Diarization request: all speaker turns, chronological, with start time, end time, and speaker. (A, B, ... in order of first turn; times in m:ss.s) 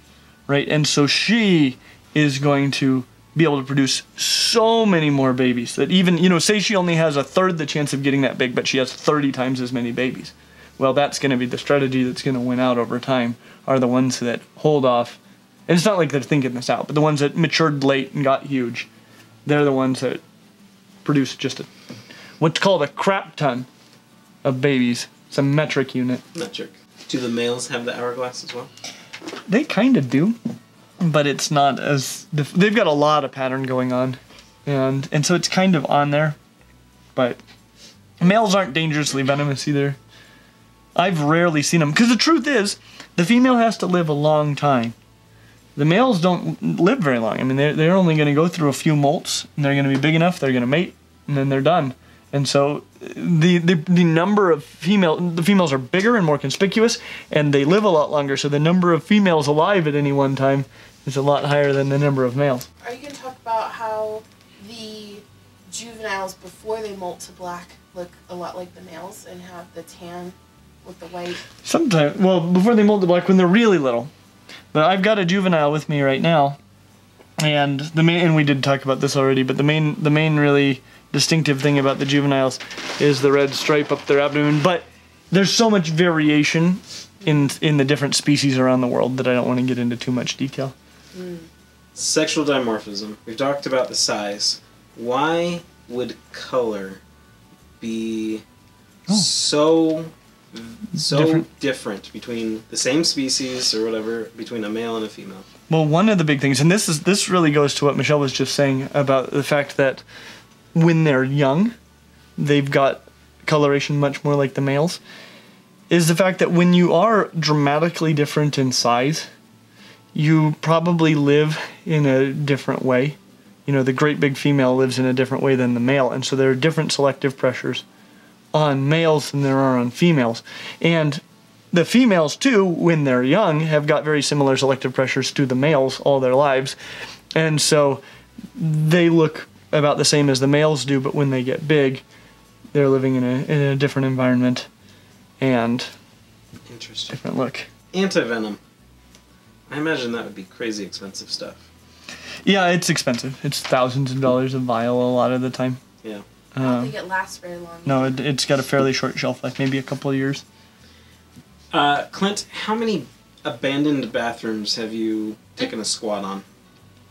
0:00.5-0:18.9 A
0:19.4-0:20.2 A
0:21.0-0:21.7 A
0:22.4-0:23.7 A
0:24.4-0:26.2 A
0:26.3-0:28.7 B
0:29.5-0:30.4 A
0:31.0-0:36.4 A
0:37.1-0:37.4 A
0:38.2-0:40.0 A
0:40.9-0:44.9 A
0:45.8-1:02.7 A
1:02.8-1:11.4 C
1:11.6-1:14.1 A
1:14.7-1:16.6 A
1:17.4-1:30.7 A
1:31.1-1:31.4 C
1:31.9-1:37.0 B
1:37.8-1:38.4 B
1:39.1-1:45.4 B
1:41.0-1:41.4 A
1:45.7-1:50.0 A
1:50.7-1:51.7 A
1:52.4-1:55.0 A
1:55.9-1:59.3 A
2:00.1-2:07.8 A
2:08.5-2:16.8 A
2:17.3-2:18.0 A
2:18.6-2:22.0 A
2:22.7-2:24.7 A
2:25.4-2:25.9 A
2:26.7-2:27.2 B
2:27.1-2:27.7 A
2:27.9-2:28.6 B
2:29.7-2:31.6 B
2:32.4-2:35.8 A
2:36.5-2:36.9 A
2:36.6-2:38.2 C
2:37.8-2:40.4 A
2:41.7-2:46.4 B